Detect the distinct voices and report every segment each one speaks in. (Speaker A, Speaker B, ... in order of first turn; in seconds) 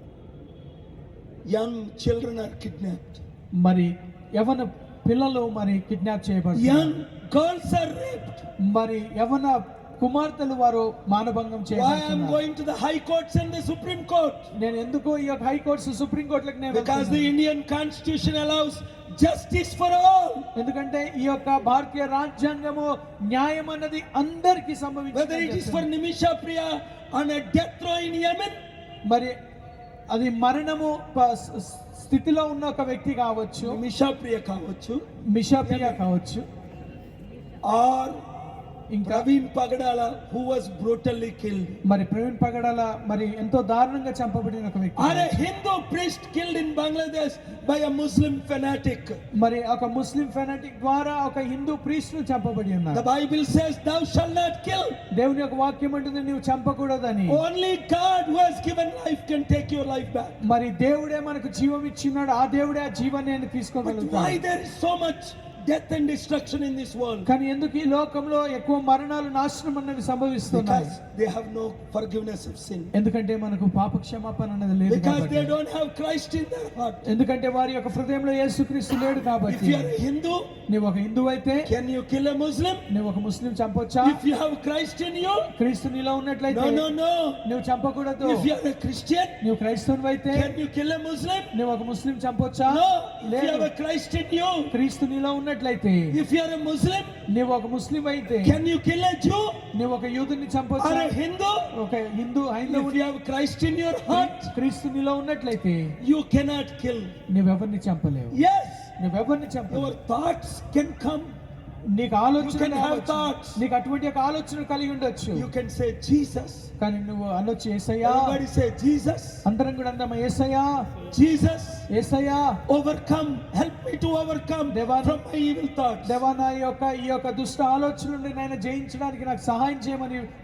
Speaker A: 1.4-3.2, 6.5-8.4, 11.7-14.5, 16.7-20.5, 25.1-28.6, 33.6-35.0, 35.6-36.0, 37.6-38.2, 39.0-41.8, 45.0-49.2, 52.9-55.0, 57.3-60.4, 63.8-67.3, 70.5-72.9, 74.9-77.1, 79.4-80.5, 81.6-82.8, 84.0-85.5, 86.5-87.4, 88.2-89.4, 90.3-91.5, 92.7-94.7, 96.1-97.1, 98.4-99.6, 100.8-101.7, 102.7-104.5, 106.0-107.1, 108.3-108.9, 109.7-111.4, 112.4-113.6, 115.3-116.7, 118.0-119.4, 121.1-121.9, 122.7-126.2
Speaker B: 3.6-7.0, 8.6-12.4, 14.6-17.3, 20.6-25.9, 29.1-29.3, 30.1-33.8, 35.3-36.5, 38.9-39.3, 41.8-45.4, 49.3-53.0, 55.1-57.4, 60.4-64.4, 67.2-70.9, 72.9-75.5, 77.0-79.9, 80.7-81.7, 82.9-84.2, 85.5-86.9, 87.4-88.5, 89.4-90.5, 91.5-93.7, 94.7-96.2, 97.3-98.6, 99.7-101.1, 101.7-103.0, 104.1-106.0, 107.3-108.4, 109.0-109.9, 111.9-115.5, 116.8-118.4, 119.5-120.9, 121.9-122.6, 124.7-125.2, 126.0-130.3